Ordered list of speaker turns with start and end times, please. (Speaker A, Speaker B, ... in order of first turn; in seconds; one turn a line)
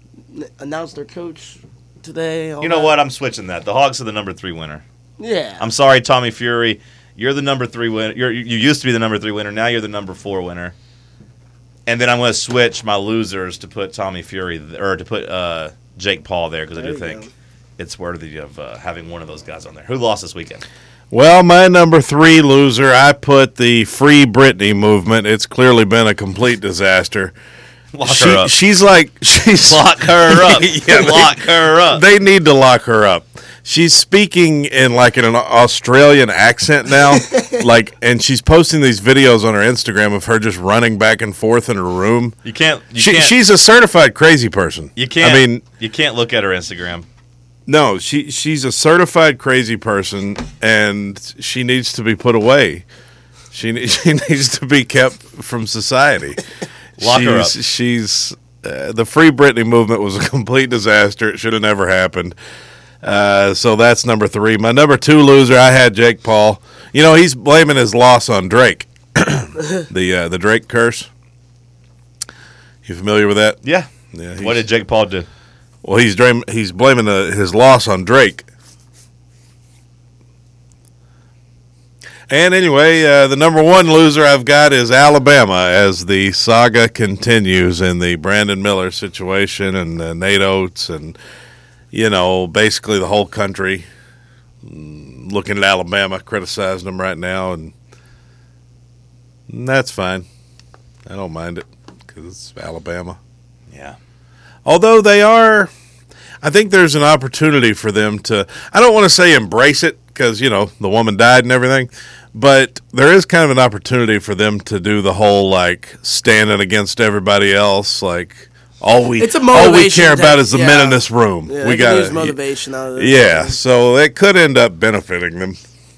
Speaker A: 0.3-2.9
Speaker B: 2.6-4.8
Speaker A: 5.2-5.6
Speaker B: 5.6-10.7
Speaker B: 11.9-17.2
Speaker A: 16.8-17.3
Speaker B: 17.8-20.6
Speaker C: 21.1-27.3
Speaker B: 27.9-28.5
Speaker C: 28.1-42.4
Speaker B: 29.6-32.0
Speaker B: 42.5-43.4
Speaker C: 43.0-45.6
Speaker B: 45.0-47.1
Speaker C: 47.7-52.9
Speaker C: 53.5-56.4
Speaker C: 57.0-62.4
Speaker B: 57.0-57.5
Speaker C: 63.0-71.1
Speaker C: 72.8-73.6
Speaker B: 73.6-75.3
Speaker C: 74.1-74.7
Speaker C: 75.8-78.5
Speaker C: 82.3-91.2
Speaker C: 91.9-93.9
Speaker C: 94.6-97.7
Speaker C: 99.5-100.3
Speaker C: 101.1-103.2
Speaker B: 103.7-104.0
Speaker C: 104.7-105.7
Speaker C: 106.4-122.4
Speaker A: 119.2-123.6
Speaker C: 123.0-125.6